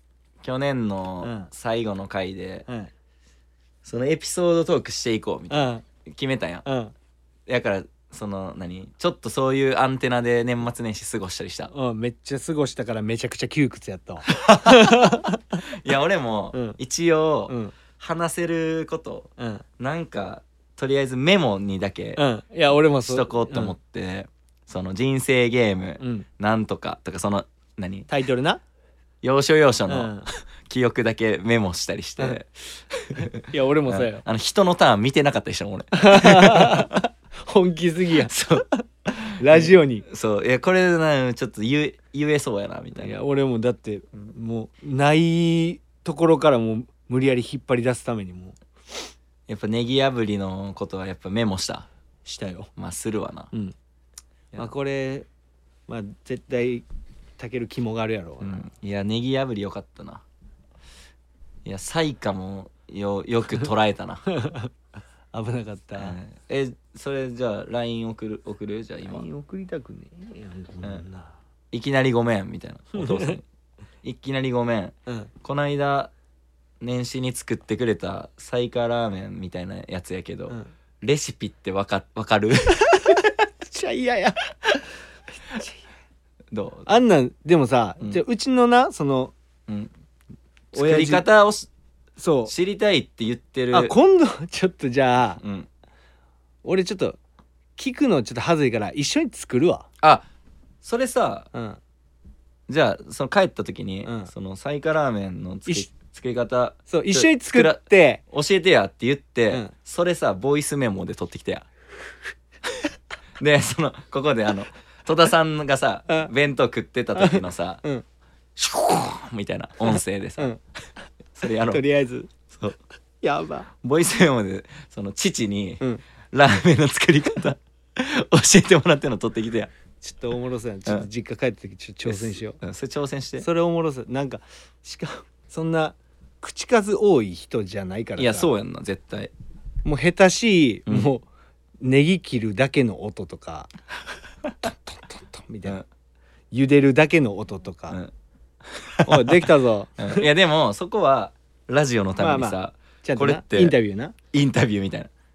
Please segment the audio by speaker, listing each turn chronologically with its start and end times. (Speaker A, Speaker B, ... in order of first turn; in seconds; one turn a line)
Speaker A: 0.4-2.7
Speaker B: 1.2-1.5
Speaker B: 2.7-2.9
Speaker A: 3.8-6.7
Speaker B: 5.5-5.8
Speaker B: 6.6-6.9
Speaker A: 7.5-11.7
Speaker B: 11.7-15.6
Speaker A: 14.3-15.1
Speaker A: 15.7-28.1
Speaker B: 16.5-16.8
Speaker B: 17.5-17.7
Speaker B: 19.4-19.6
Speaker B: 22.1-23.8
Speaker B: 26.0-26.3
Speaker B: 28.1-28.6
Speaker A: 29.2-37.0
Speaker B: 29.9-30.3
Speaker B: 33.1-34.2
Speaker B: 36.0-38.3
Speaker A: 38.2-43.2
Speaker B: 39.4-40.0
Speaker B: 42.9-48.6
Speaker A: 49.5-51.9
Speaker B: 52.2-52.7
Speaker A: 52.8-53.5
Speaker B: 54.5-55.3
Speaker B: 55.9-56.9
Speaker B: 57.4-58.6
Speaker A: 58.4-60.2
Speaker A: 61.6-64.3
Speaker B: 64.4-64.7
Speaker B: 65.3-66.2
Speaker A: 66.0-69.3
Speaker B: 69.0-71.3
Speaker A: 71.7-73.5
Speaker B: 72.9-73.3
Speaker A: 74.0-76.1
Speaker A: 76.8-83.3
Speaker B: 83.6-84.8
Speaker A: 86.5-86.9
Speaker B: 86.9-89.3
Speaker A: 89.7-89.9
Speaker A: 90.7-91.7
Speaker B: 90.7-91.2
Speaker B: 92.2-92.5
Speaker A: 92.5-93.9
Speaker B: 93.7-95.4
Speaker A: 95.4-95.7
Speaker B: 96.6-97.2
Speaker B: 97.8-99.9
Speaker A: 100.0-100.3
Speaker A: 100.8-101.5
Speaker B: 101.5-101.8
Speaker A: 102.7-111.7
Speaker B: 104.0-104.3
Speaker B: 106.9-108.2
Speaker A: 113.4-117.8
Speaker B: 117.2-118.0
Speaker A: 118.5-120.5
Speaker B: 119.8-120.6
Speaker A: 121.3-121.8
Speaker B: 121.7-122.3
Speaker A: 122.5-122.8
Speaker B: 123.2-123.7
Speaker A: 123.8-129.7
Speaker B: 130.0-132.6
Speaker A: 132.0-133.5
Speaker B: 133.4-138.5
Speaker A: 138.2-139.3
Speaker B: 139.8-141.2
Speaker B: 141.8-143.7
Speaker B: 144.6-145.8
Speaker B: 146.5-148.0
Speaker A: 148.7-149.5
Speaker B: 149.0-150.2
Speaker A: 150.0-153.8
Speaker B: 152.2-154.1
Speaker A: 154.3-155.1